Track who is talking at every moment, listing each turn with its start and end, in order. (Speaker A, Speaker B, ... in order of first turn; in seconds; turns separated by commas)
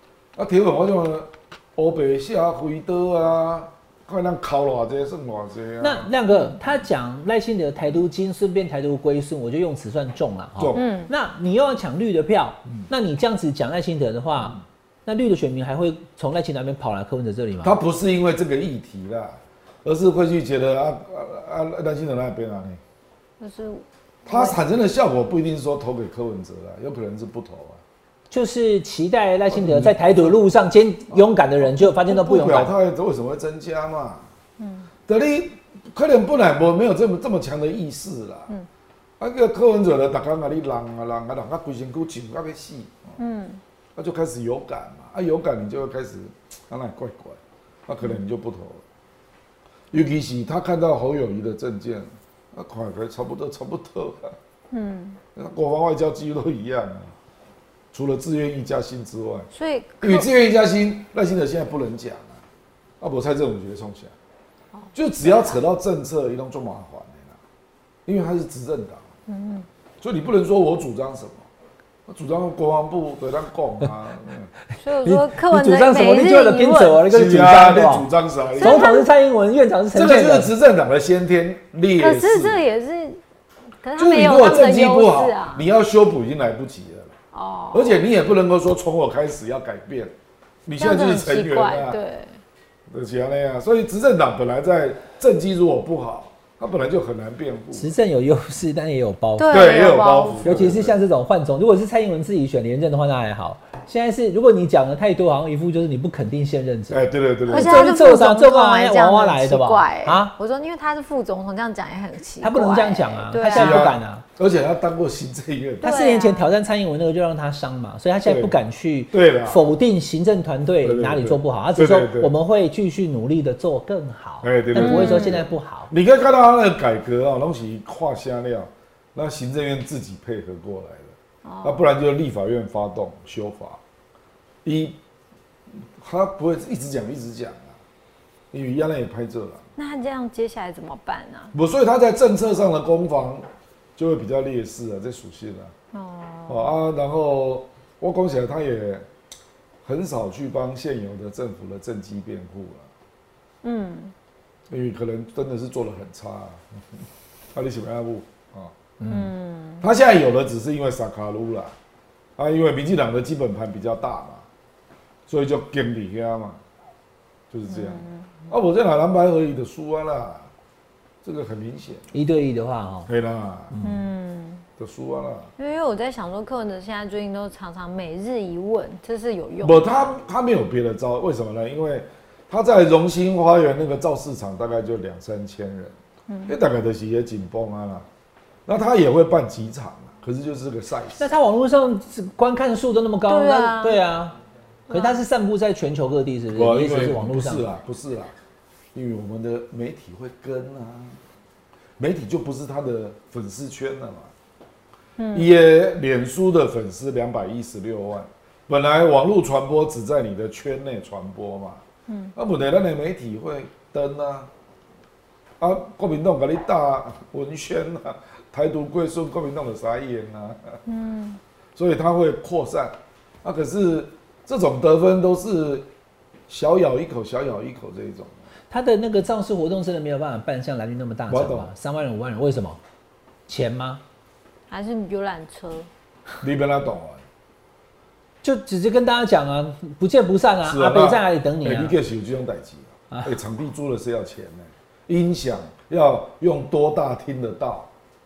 Speaker A: 0.4-6.1, Speaker B: 5.8-17.8, Speaker A: 10.6-10.8, Speaker C: 10.7-11.1, Speaker A: 17.6-22.8, Speaker C: 23.4-24.6, Speaker A: 24.3-27.8, Speaker B: 28.3-32.7, Speaker A: 29.5-30.3, Speaker A: 31.1-34.3, Speaker C: 34.6-34.9, Speaker A: 35.1-38.5, Speaker A: 39.2-43.2, Speaker C: 43.2-43.6, Speaker A: 44.0-48.8, Speaker A: 49.9-54.4, Speaker C: 54.7-55.2, Speaker A: 55.4-57.1, Speaker A: 57.9-59.5, Speaker C: 59.5-60.3, Speaker A: 60.0-62.3, Speaker A: 63.0-64.1, Speaker A: 65.0-67.4, Speaker A: 68.1-69.0, Speaker C: 69.3-69.7, Speaker A: 70.0-71.5, Speaker A: 72.1-74.5, Speaker C: 74.8-77.1, Speaker B: 75.0-78.1, Speaker A: 77.1-78.9, Speaker C: 78.5-79.1, Speaker B: 78.6-80.5, Speaker A: 79.9-82.6, Speaker C: 82.0-83.2, Speaker C: 83.8-85.7, Speaker A: 84.0-87.1, Speaker C: 87.3-88.0, Speaker A: 87.7-90.1, Speaker A: 90.7-92.0, Speaker C: 90.8-92.4, Speaker A: 92.9-97.9, Speaker B: 97.7-99.6, Speaker C: 99.4-100.6, Speaker A: 99.5-101.0, Speaker B: 100.4-110.3, Speaker A: 106.9-108.0, Speaker C: 107.5-113.9, Speaker B: 112.4-114.2, Speaker A: 113.5-115.9, Speaker C: 115.8-116.5, Speaker B: 115.8-125.9, Speaker A: 118.2-118.6, Speaker A: 119.1-119.7, Speaker A: 120.8-122.3, Speaker A: 124.4-133.8, Speaker C: 124.8-125.4, Speaker C: 131.4-131.8, Speaker A: 134.7-135.0, Speaker A: 136.0-137.7, Speaker A: 138.5-139.6, Speaker C: 139.8-141.5, Speaker A: 141.5-143.5, Speaker A: 144.0-145.7, Speaker C: 145.9-146.7, Speaker A: 146.5-149.1, Speaker A: 149.8-152.9, Speaker C: 153.6-154.1, Speaker A: 154.7-156.6, Speaker A: 157.5-158.7, Speaker B: 159.0-159.3, Speaker C: 159.1-159.8, Speaker A: 159.8-161.7, Speaker A: 162.4-164.4, Speaker A: 165.3-166.6, Speaker A: 167.5-170.5, Speaker C: 167.7-168.4, Speaker A: 171.2-172.1, Speaker B: 172.1-173.1, Speaker A: 173.1-173.7, Speaker B: 173.7-174.1, Speaker C: 173.8-174.7, Speaker A: 174.8-175.5, Speaker C: 175.6-180.2, Speaker A: 179.6-185.9, Speaker C: 186.3-186.6, Speaker A: 186.5-188.1, Speaker A: 188.7-191.3, Speaker B: 191.2-194.4, Speaker C: 193.3-194.0, Speaker C: 194.9-195.2, Speaker B: 194.9-197.6, Speaker A: 196.5-198.3, Speaker A: 198.9-201.2, Speaker A: 202.0-204.3, Speaker C: 205.2-205.5, Speaker A: 205.3-211.8, Speaker C: 212.1-212.3, Speaker A: 212.4-214.5, Speaker A: 215.6-220.8, Speaker C: 220.9-221.4, Speaker A: 221.8-225.9, Speaker A: 226.5-228.3, Speaker B: 228.7-232.8, Speaker A: 231.3-231.7, Speaker B: 233.5-234.0, Speaker C: 234.7-235.9, Speaker A: 236.4-237.2, Speaker B: 238.4-242.0, Speaker A: 240.7-247.9